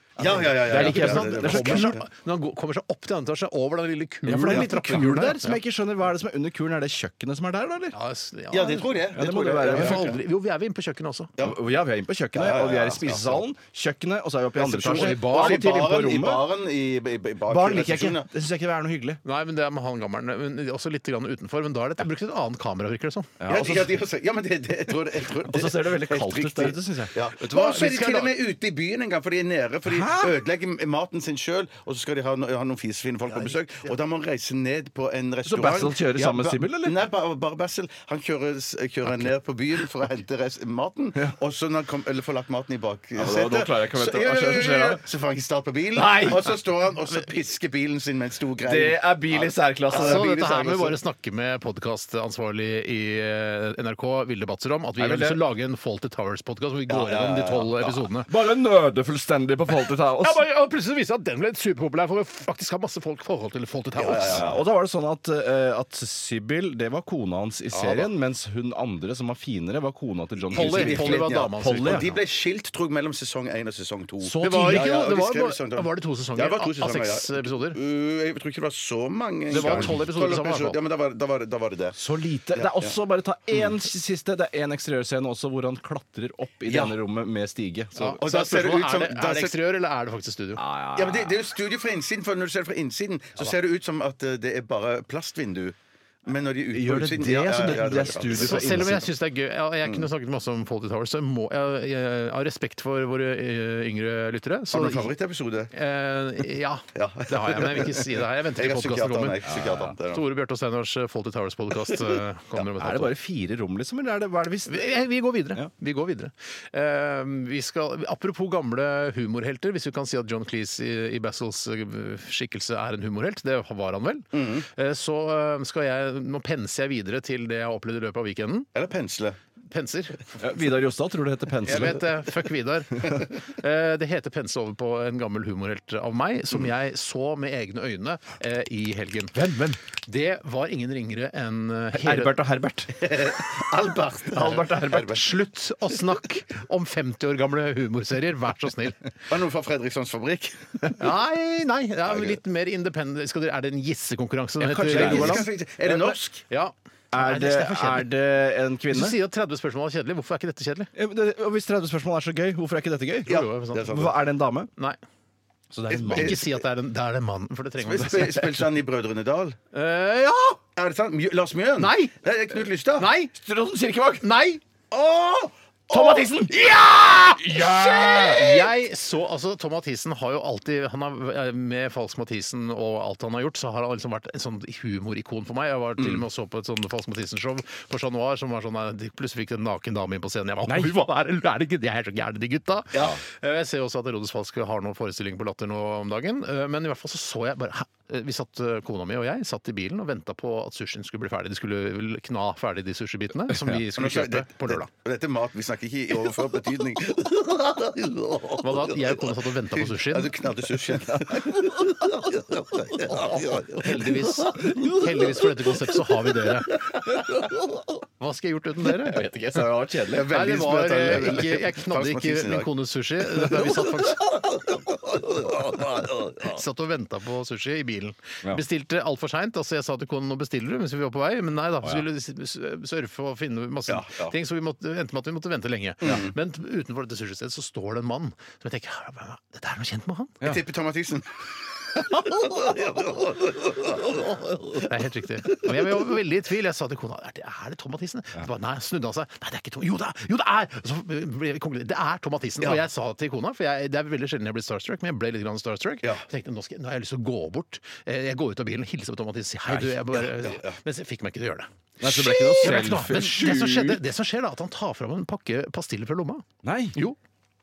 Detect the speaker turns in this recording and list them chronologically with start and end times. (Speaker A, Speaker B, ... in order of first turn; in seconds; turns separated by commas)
Speaker A: 0.2-2.0, Speaker B: 0.2-5.6, Speaker C: 0.5-2.0, Speaker C: 4.2-8.0, Speaker B: 7.9-9.0, Speaker A: 8.5-10.2, Speaker C: 9.1-10.2, Speaker B: 9.6-11.3, Speaker C: 11.4-16.4, Speaker A: 12.3-13.4, Speaker A: 14.6-18.3, Speaker B: 14.8-15.7, Speaker C: 17.5-19.2, Speaker B: 19.2-23.3, Speaker C: 23.4-24.0, Speaker A: 23.5-50.7, Speaker C: 25.4-27.2, Speaker B: 27.4-28.3, Speaker C: 29.8-30.4, Speaker C: 35.4-37.0, Speaker C: 39.0-39.3, Speaker C: 43.1-45.0, Speaker C: 45.9-46.5, Speaker C: 48.6-51.0, Speaker B: 49.9-58.3, Speaker C: 55.0-55.4, Speaker A: 56.9-58.0, Speaker C: 58.3-60.4, Speaker B: 60.2-64.5, Speaker A: 64.0-64.6, Speaker C: 64.3-72.1, Speaker A: 70.5-82.0, Speaker B: 70.5-72.2, Speaker C: 74.2-75.0, Speaker B: 74.4-77.8, Speaker B: 79.5-80.8, Speaker C: 79.5-80.0, Speaker C: 82.0-88.2, Speaker A: 82.5-82.9, Speaker A: 86.7-86.9, Speaker B: 88.0-90.6, Speaker A: 88.2-89.5, Speaker C: 90.5-91.4, Speaker A: 90.9-99.0, Speaker C: 96.7-99.1, Speaker B: 98.3-105.1, Speaker A: 104.7-105.7, Speaker B: 105.7-109.4, Speaker A: 106.9-110.2, Speaker C: 109.5-110.0, Speaker B: 110.0-113.1, Speaker C: 112.6-114.9, Speaker B: 114.7-128.7, Speaker A: 124.3-124.6, Speaker A: 128.7-129.4, Speaker B: 129.7-130.2, Speaker C: 130.4-132.0, Speaker B: 131.6-142.4, Speaker C: 141.9-143.4, Speaker A: 142.9-145.2, Speaker C: 144.3-145.2, Speaker B: 144.9-149.0, Speaker A: 149.3-151.1, Speaker B: 150.9-158.1, Speaker A: 152.1-152.4, Speaker C: 154.6-155.5, Speaker A: 154.7-156.4, Speaker C: 157.1-159.2, Speaker B: 158.9-160.9, Speaker C: 160.9-164.7, Speaker B: 163.2-164.0, Speaker A: 163.3-164.2, Speaker C: 165.7-166.4, Speaker A: 165.9-166.5, Speaker B: 166.1-168.6, Speaker A: 167.8-169.6, Speaker B: 169.7-170.6, Speaker A: 170.8-173.1, Speaker B: 171.8-172.1, Speaker B: 173.0-173.3, Speaker C: 173.3-174.2, Speaker B: 174.2-174.6, Speaker A: 174.9-178.5, Speaker C: 175.9-176.5, Speaker B: 175.9-176.5, Speaker C: 177.4-178.5, Speaker B: 177.4-204.9, Speaker A: 203.8-214.9, Speaker B: 208.6-210.3, Speaker C: 211.1-212.1, Speaker B: 213.8-216.8, Speaker C: 214.6-215.1, Speaker C: 217.3-217.6, Speaker B: 218.2-219.6, Speaker C: 219.0-220.3, Speaker A: 220.1-222.7, Speaker B: 220.2-224.2, Speaker A: 223.3-226.5, Speaker B: 226.4-240.4, Speaker A: 233.9-234.3, Speaker A: 236.0-236.3, Speaker A: 240.4-241.3, Speaker A: 241.9-244.8, Speaker B: 244.8-267.2, Speaker A: 260.2-260.8, Speaker C: 262.0-264.0, Speaker C: 266.6-267.0